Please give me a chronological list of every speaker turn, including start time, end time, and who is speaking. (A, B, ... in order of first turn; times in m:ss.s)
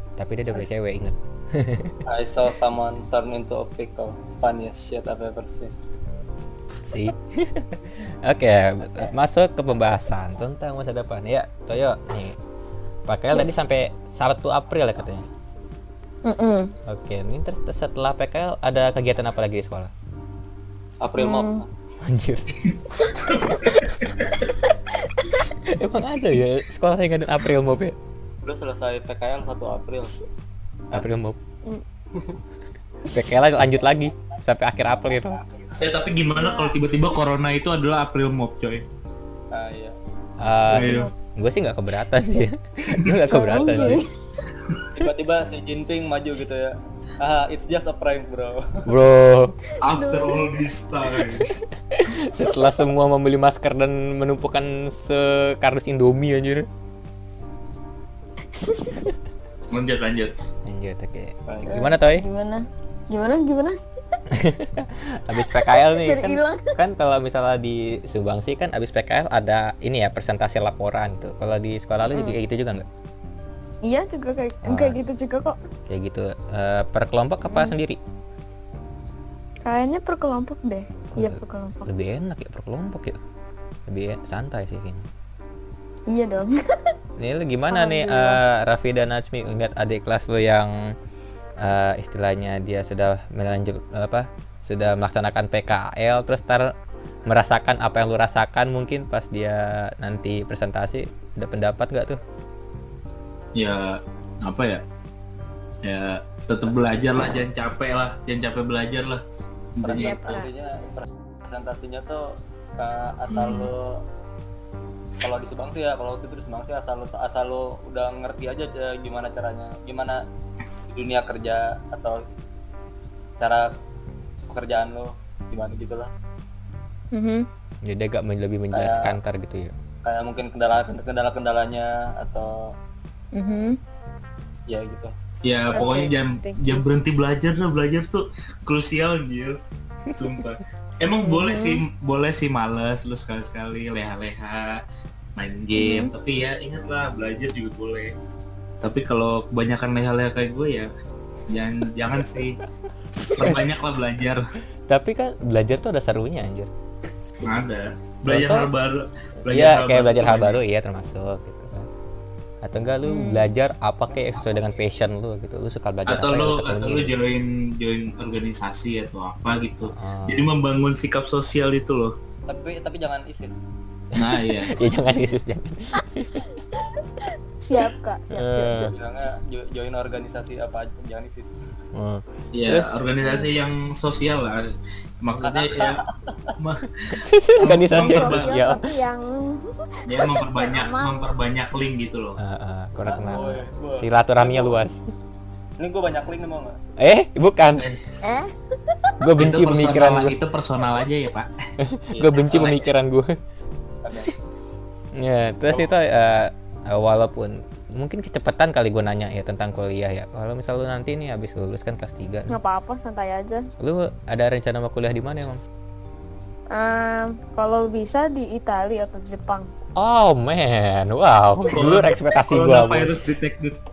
0:00.2-0:02.0 A
0:02.1-0:05.7 B
0:06.8-0:12.4 A
0:13.1-0:15.3 A
0:13.3-0:13.6 C
0:16.2-0:16.7 C
0:16.9-0:19.9 A
0:21.0-0:21.7 B
0:21.2-0:21.6 C
0:22.0-0:23.5 A
0:23.2-0:23.5 C
0:25.3-0:28.0 A
0:28.4-0:30.2 B
0:30.9-0:31.4 A
0:32.1-0:32.4 B
0:33.1-0:35.4 A
0:35.8-0:38.8 D
0:36.4-0:36.8 C
0:39.5-0:40.0 B
0:40.4-0:44.0 A
0:40.7-0:41.1 C
0:40.7-0:41.1 D
0:43.2-0:44.1 C
0:45.0-0:48.9 B
0:48.9-0:49.6 A
0:49.8-0:51.5 D
0:49.9-0:50.5 C
0:51.8-0:56.7 A
0:58.5-0:59.1 C
0:59.7-1:00.3 D
1:00.7-1:02.3 A
1:01.5-1:01.8 B
1:01.6-1:03.8 C
1:04.3-1:12.8 A
1:05.5-1:06.8 C
1:12.1-1:12.4 C
1:13.8-1:15.6 C
1:14.6-1:15.0 A
1:15.9-1:18.0 A
1:17.5-1:17.8 C
1:19.6-1:21.9 C
1:21.1-1:23.2 A
1:23.9-1:25.1 A
1:26.1-1:27.0 C
1:27.2-1:30.9 A
1:27.7-1:28.4 C
1:31.6-1:36.7 A
1:37.3-1:42.2 A
1:43.6-1:44.8 D
1:45.8-1:49.2 D
1:49.8-1:50.3 D
1:49.8-1:54.0 B
1:49.9-1:50.5 C
1:53.3-1:53.7 D
1:55.2-2:00.2 B
2:00.9-2:02.2 B
2:03.4-2:03.7 B
2:04.5-2:06.1 B
2:07.1-2:07.5 C
2:07.8-2:09.7 A
2:08.7-2:09.2 B
2:10.0-2:12.7 B
2:13.3-2:13.8 C
2:14.7-2:15.1 B
2:15.4-2:19.6 D
2:15.7-2:16.8 C
2:20.1-2:24.8 D
2:21.2-2:21.8 C
2:25.4-2:28.1 D
2:25.8-2:26.1 C
2:28.8-2:30.9 D
2:31.5-2:32.6 D
2:33.2-2:33.6 A
2:33.4-2:34.4 D
2:34.9-2:36.7 A
2:37.4-2:40.6 D
2:38.3-2:38.7 A
2:39.5-2:41.9 A
2:42.6-2:47.1 A
2:43.0-2:43.5 C
2:46.1-2:52.1 D
2:49.8-2:50.5 A
2:52.5-2:53.6 B
2:54.2-2:54.8 D
2:54.2-2:56.5 A
2:56.8-2:58.9 C
2:58.3-2:58.9 A
2:58.8-3:01.6 B
3:01.9-3:03.0 A
3:02.5-3:06.0 D
3:03.2-3:03.5 C
3:05.4-3:06.6 B
3:06.6-3:08.6 D
3:07.1-3:08.8 A
3:07.9-3:11.3 C
3:10.1-3:12.4 D
3:12.4-3:15.0 A
3:13.1-3:14.8 B
3:15.8-3:16.8 B
3:17.0-3:17.9 A
3:17.8-3:18.3 D
3:18.2-3:19.2 C
3:19.2-3:20.4 A
3:19.4-3:21.5 D
3:21.8-3:23.3 A
3:22.1-3:22.7 B
3:22.5-3:22.8 D
3:24.0-3:24.4 B
3:25.2-3:32.6 A
3:32.5-3:33.7 C
3:33.8-3:35.6 A
3:36.7-3:39.7 C
3:40.0-3:43.2 A
3:41.7-3:43.8 D